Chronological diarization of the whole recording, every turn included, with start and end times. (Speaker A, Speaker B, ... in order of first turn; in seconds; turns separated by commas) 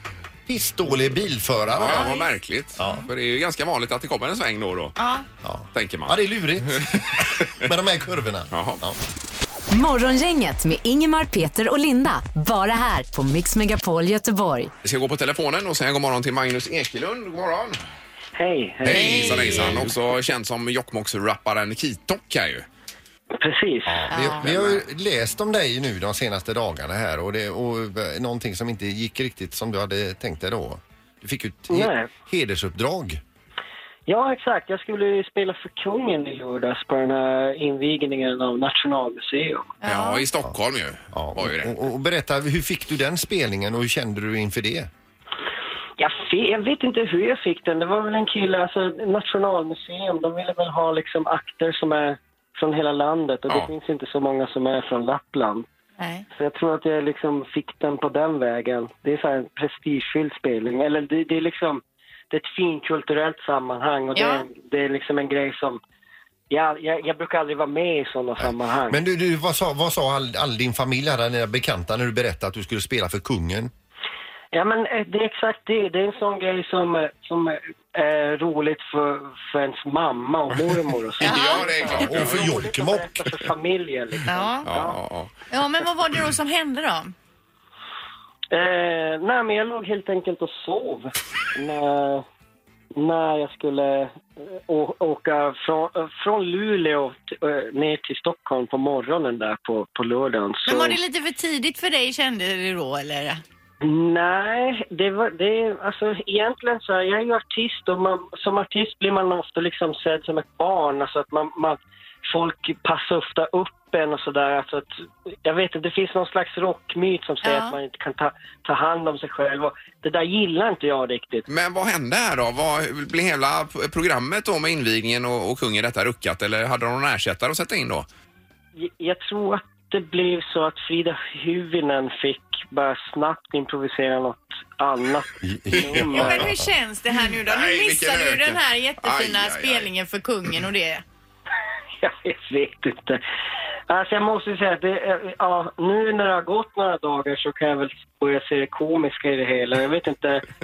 Speaker A: 0.5-2.2, Speaker B: 1.7-4.9, Speaker C: 1.8-2.3, Speaker A: 2.8-3.0, Speaker C: 5.0-5.2, Speaker A: 5.4-9.0, Speaker B: 5.7-6.2, Speaker B: 6.7-7.5, Speaker B: 8.5-8.8, Speaker D: 9.7-14.7, Speaker B: 14.8-17.8, Speaker E: 18.3-19.8, Speaker B: 18.8-22.6, Speaker A: 18.9-19.8, Speaker C: 18.9-19.8, Speaker E: 23.4-24.1, Speaker A: 23.9-33.2, Speaker C: 24.1-24.5, Speaker B: 24.4-24.8, Speaker E: 31.7-32.1, Speaker E: 34.1-39.7, Speaker C: 39.8-40.2, Speaker B: 39.9-41.8, Speaker A: 41.1-44.9, Speaker E: 46.0-55.6, Speaker B: 53.5-53.7, Speaker C: 56.0-56.2, Speaker E: 56.3-65.8, Speaker C: 64.1-64.5, Speaker E: 66.5-69.0, Speaker A: 68.4-73.7, Speaker E: 74.5-85.0, Speaker B: 81.2-82.6, Speaker C: 81.2-82.0, Speaker A: 81.9-83.2, Speaker C: 84.3-84.8, Speaker B: 84.6-85.3, Speaker C: 85.5-87.1, Speaker E: 88.5-92.2, Speaker E: 92.9-101.0, Speaker C: 100.6-103.4, Speaker E: 103.8-114.9, Speaker E: 115.4-121.5, Speaker C: 117.4-117.8, Speaker B: 121.5-128.1, Speaker E: 128.8-136.4, Speaker A: 135.4-136.7, Speaker C: 136.0-141.0, Speaker B: 137.5-139.9, Speaker E: 142.0-143.2, Speaker E: 143.9-150.4